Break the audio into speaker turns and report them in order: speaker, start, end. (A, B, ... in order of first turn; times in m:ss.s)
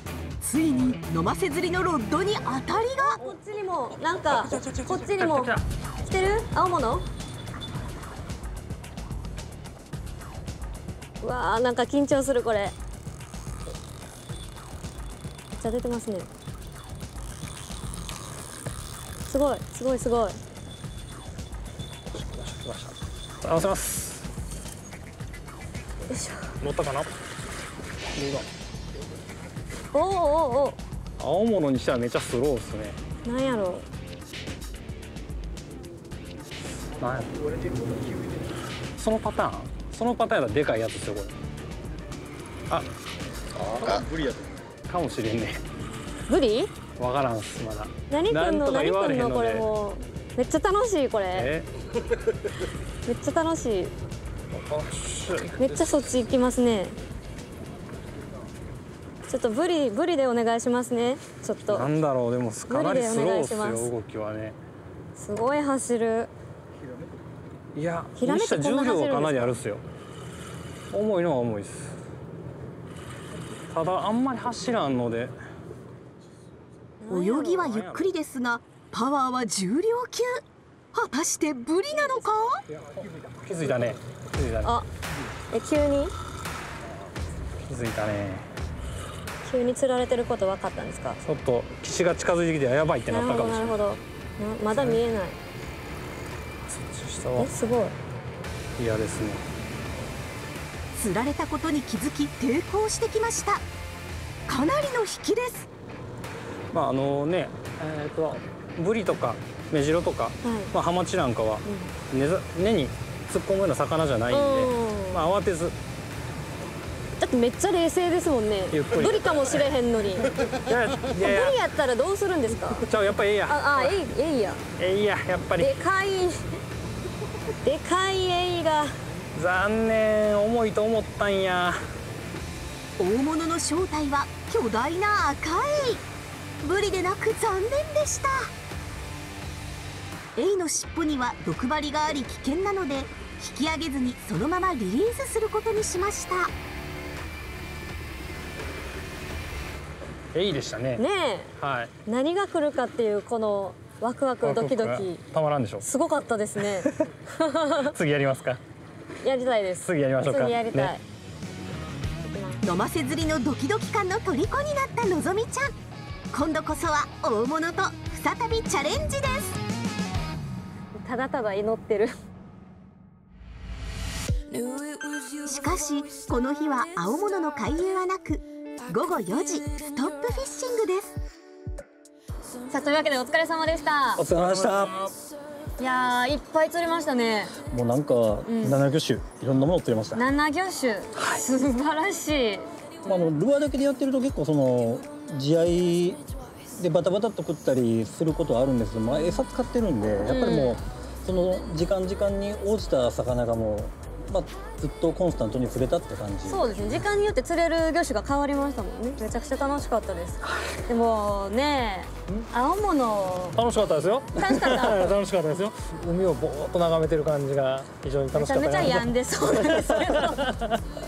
0:00.4-0:03.2 A
0:03.0-0:07.1 B
0:04.3-0:04.9 C
0:05.1-0:05.6 D
0:11.2-0:12.7 B
0:15.5-0:16.3 B
0:19.3-0:20.4 B
0:22.1-0:24.3 D
0:26.1-0:26.5 B
0:26.6-0:27.1 D
0:29.9-0:30.8 B
0:31.2-0:33.0 D
0:33.2-0:33.8 B
0:37.0-0:37.3 D
0:37.6-0:38.4 C
0:39.0-0:41.4 D
0:43.6-0:44.5 C
0:44.9-0:45.6 D
0:46.3-0:46.7 B
0:47.0-0:49.6 D
0:48.1-0:51.5 B
0:51.3-0:51.7 D
0:53.0-0:53.9 B
0:54.5-0:55.8 D
0:55.6-0:56.9 B
0:59.3-1:01.9 B
1:01.7-1:04.6 D
1:02.7-1:03.9 B
1:05.2-1:06.3 B
1:07.7-1:09.8 D
1:08.2-1:09.5 B
1:10.9-1:11.9 D
1:13.7-1:15.4 D
1:17.0-1:17.7 B
1:17.1-1:20.4 A
1:17.5-1:18.1 D
1:20.9-1:22.6 A
1:22.0-1:22.2 B
1:22.7-1:24.8 D
1:25.5-1:26.1 B
1:27.7-1:28.5 D
1:29.4-1:31.2 B
1:31.2-1:33.8 D
1:33.1-1:35.4 B
1:34.7-1:35.0 D
1:36.7-1:37.5 D
1:37.4-1:38.0 B
1:38.8-1:39.4 D
1:40.9-1:43.6 A
1:44.5-1:45.7 A
1:46.7-1:55.7 D
1:50.4-1:50.7 B
1:51.6-1:51.9 B
1:54.3-1:55.2 B
1:57.2-2:00.4 B
1:58.7-1:59.7 D
2:00.5-2:01.6 D
2:01.2-2:02.9 B
2:02.8-2:04.0 D
2:03.5-2:04.6 B
2:04.8-2:05.7 D
2:05.6-2:06.4 B
2:07.6-2:08.9 B
2:09.3-2:11.8 D
2:13.0-2:16.0 A
2:16.6-2:18.5 A
2:20.4-2:26.5 A
2:30.3-2:31.0 D
2:31.0-2:31.5 B
2:31.6-2:31.9 D
2:32.0-2:35.2 B
2:34.4-2:35.8 D
2:35.8-2:37.9 B
2:36.8-2:37.1 D
2:37.8-2:38.6 D
2:39.2-2:41.0 B
2:39.8-2:40.9 D
2:42.2-2:42.6 B
2:42.6-2:45.7 A
2:46.3-2:49.6 A
2:51.0-2:52.1 B
2:55.4-3:01.2 A
3:02.7-3:04.2 B
3:04.2-3:05.0 C
3:04.3-3:05.0 D
3:05.8-3:07.5 B
3:07.7-3:10.2 C
3:08.4-3:08.8 B
3:10.1-3:12.7 B
3:11.2-3:11.4 C
3:13.0-3:16.2 C
3:16.7-3:26.8 C
3:20.2-3:20.8 B
3:26.5-3:33.6 B
3:33.5-3:40.8 D
3:34.3-3:35.1 B
3:38.3-3:40.4 B